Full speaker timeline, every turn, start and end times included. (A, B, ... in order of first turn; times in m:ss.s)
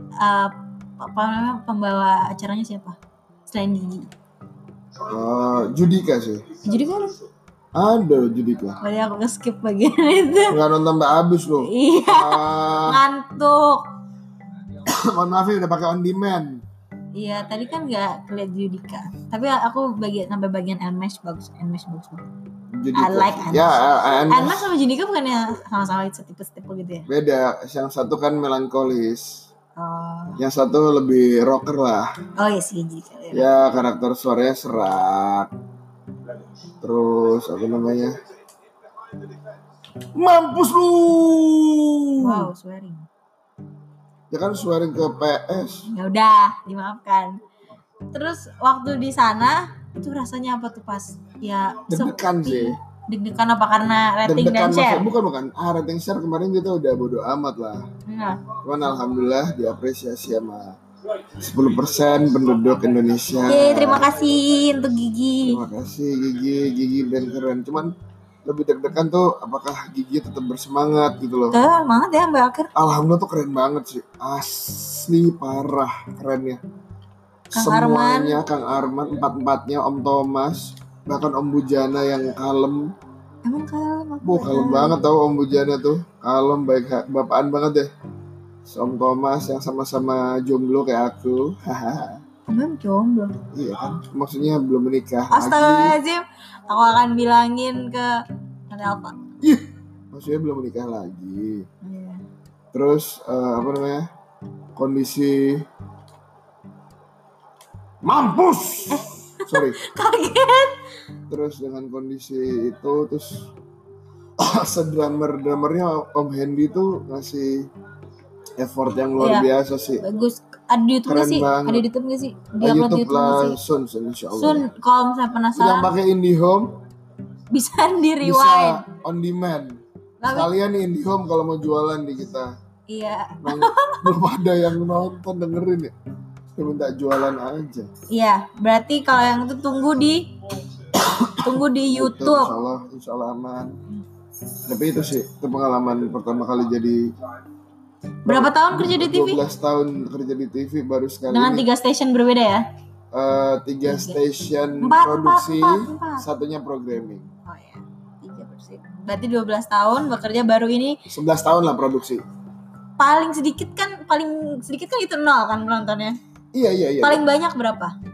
0:00.2-0:03.0 A
0:03.5-0:04.1 A
0:05.0-0:06.5 B
0:06.6-0:07.2 A
0:07.8-0:08.8 B
0:08.8-0:10.6 A
0:10.5-0:13.0 B
0:11.6-0:13.8 A
0:14.8-0:16.6 B
0:17.2-0:22.3 A
0:22.8-0:24.7 B
0:23.0-0:27.1 A
0:27.1-0:29.5 B
0:29.8-0:30.4 A
0:30.4-0:32.1 B
0:32.4-0:33.5 A
0:33.3-0:35.5 B
0:36.8-0:38.2 B
0:40.2-0:42.5 B
0:42.2-0:43.1 A
0:44.3-0:45.9 B
0:45.9-0:47.4 A
0:48.1-0:55.1 A
0:51.9-0:52.8 B
0:54.2-0:57.8 B
0:58.1-0:58.4 A
0:58.6-1:00.8 B
1:01.4-1:04.1 B
1:03.5-1:05.6 A
1:05.4-1:07.9 B
1:08.4-1:11.6 B
1:11.5-1:12.7 A
1:12.8-1:16.6 B
1:17.5-1:18.4 A
1:17.5-1:22.9 B
1:23.4-1:25.0 A
1:24.2-1:27.9 B
1:28.7-1:32.2 B
1:32.5-1:33.4 A
1:33.5-1:36.0 B
1:35.3-1:39.2 A
1:39.4-1:41.7 B
1:41.8-1:42.2 A
1:42.7-1:44.1 B
1:44.8-1:45.7 B
1:48.0-1:49.8 B
1:48.9-1:50.8 A
1:51.3-1:53.5 B
1:54.4-1:57.7 B
1:58.6-2:00.0 B
1:59.2-1:59.5 A
2:00.0-2:03.6 A
2:01.1-2:01.8 B
2:02.6-2:04.7 B
2:04.3-2:05.9 A
2:05.5-2:06.7 B
2:07.5-2:08.8 A
2:08.2-2:12.5 B
2:10.2-2:10.5 A
2:12.9-2:14.1 A
2:13.4-2:15.9 B
2:16.6-2:17.9 B
2:18.1-2:20.3 A
2:21.0-2:22.5 A
2:21.1-2:23.8 B
2:24.7-2:27.1 B
2:28.3-2:29.4 A
2:28.3-2:31.7 B
2:31.3-2:32.6 A
2:33.1-2:37.3 B
2:33.9-2:34.2 A
2:34.8-2:36.2 A
2:37.5-2:41.0 A
2:41.1-2:42.2 B
2:43.0-2:46.2 A
2:46.5-2:47.2 B
2:47.0-2:48.0 A